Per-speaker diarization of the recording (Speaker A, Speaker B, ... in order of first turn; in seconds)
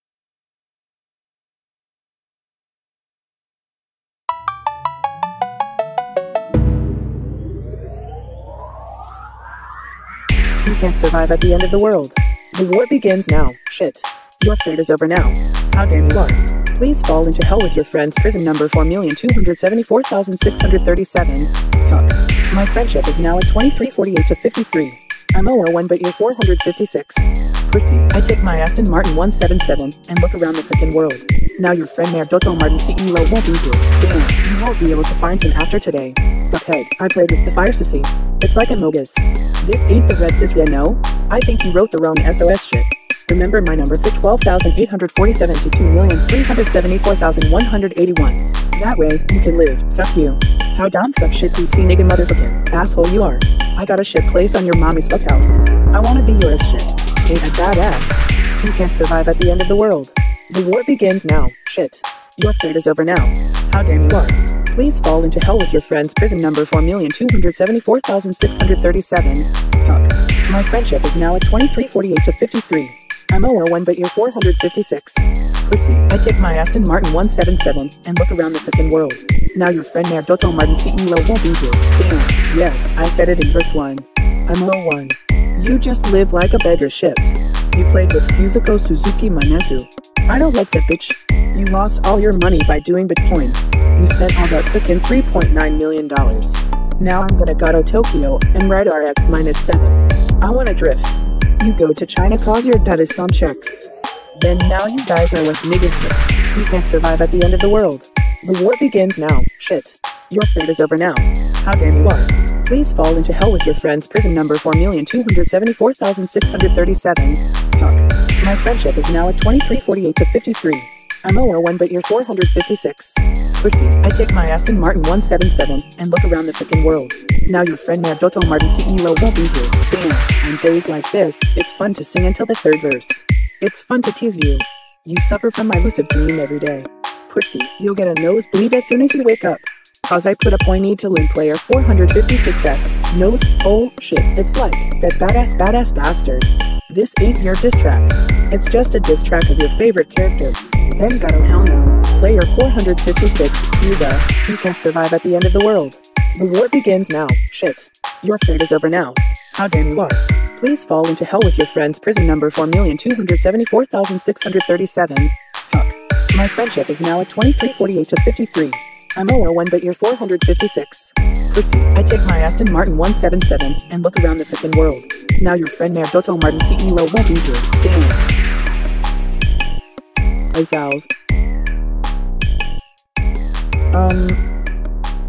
Speaker A: 10.6-178.2, 180.5-181.1, 183.9-184.4